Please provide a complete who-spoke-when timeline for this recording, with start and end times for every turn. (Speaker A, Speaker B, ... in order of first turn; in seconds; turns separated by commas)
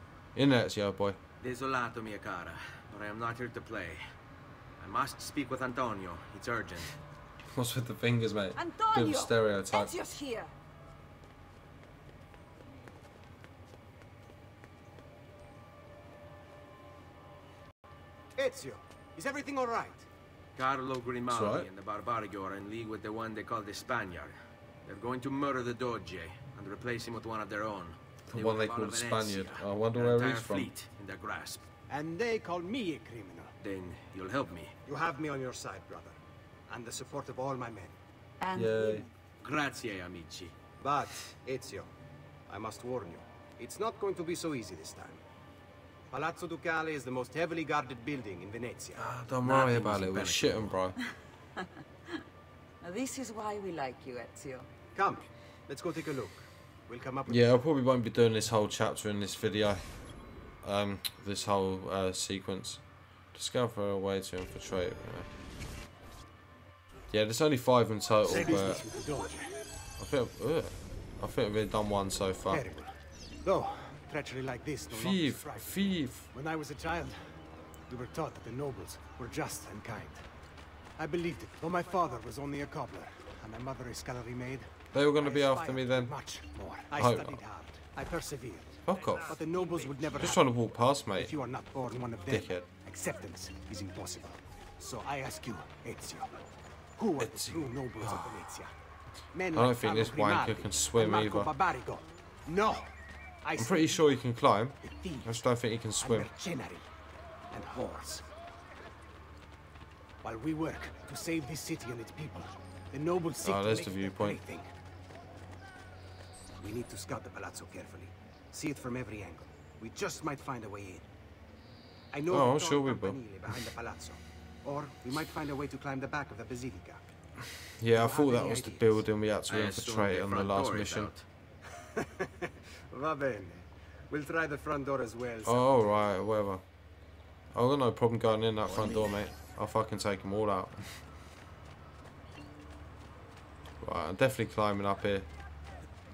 Speaker A: 0.3-1.2, Speaker B: 1.4-4.0, Speaker B: 4.8-6.9, Speaker A: 7.5-10.0, Speaker C: 8.5-10.5, Speaker D: 18.4-20.1, Speaker B: 20.6-24.3, Speaker A: 21.3-21.7, Speaker B: 24.9-31.6, Speaker A: 28.3-30.7, Speaker D: 31.9-33.5, Speaker B: 33.6-34.7, Speaker D: 34.9-38.0, Speaker C: 38.4-39.1, Speaker A: 38.5-39.1, Speaker B: 39.4-40.5, Speaker D: 40.8-41.9, Speaker D: 42.5-45.2, Speaker D: 46.1-49.0, Speaker A: 49.0-51.0, Speaker B: 49.4-50.8, Speaker C: 52.8-54.7, Speaker D: 54.9-57.5, Speaker A: 57.3-59.8, Speaker A: 60.6-62.8, Speaker A: 63.3-65.3, Speaker A: 67.1-68.8, Speaker D: 68.2-69.5, Speaker A: 70.0-72.6, Speaker D: 72.5-80.3, Speaker A: 74.9-76.3, Speaker D: 81.0-90.5, Speaker A: 84.9-86.1, Speaker A: 86.9-87.4, Speaker A: 88.8-89.4, Speaker B: 89.6-90.1, Speaker A: 90.1-91.3, Speaker D: 91.1-98.7, Speaker A: 92.3-92.7, Speaker A: 97.2-98.5, Speaker D: 99.3-104.1, Speaker A: 99.5-101.5, Speaker A: 103.6-106.3, Speaker D: 104.8-105.4, Speaker D: 106.0-106.8, Speaker D: 107.5-108.3, Speaker D: 110.2-114.7, Speaker A: 113.4-114.4, Speaker D: 116.6-121.0, Speaker D: 122.1-127.0, Speaker A: 122.3-123.2, Speaker A: 127.8-131.1, Speaker D: 127.9-129.0, Speaker B: 129.5-131.2, Speaker D: 131.8-135.7, Speaker A: 135.4-136.6, Speaker A: 137.5-141.0, Speaker A: 143.8-145.3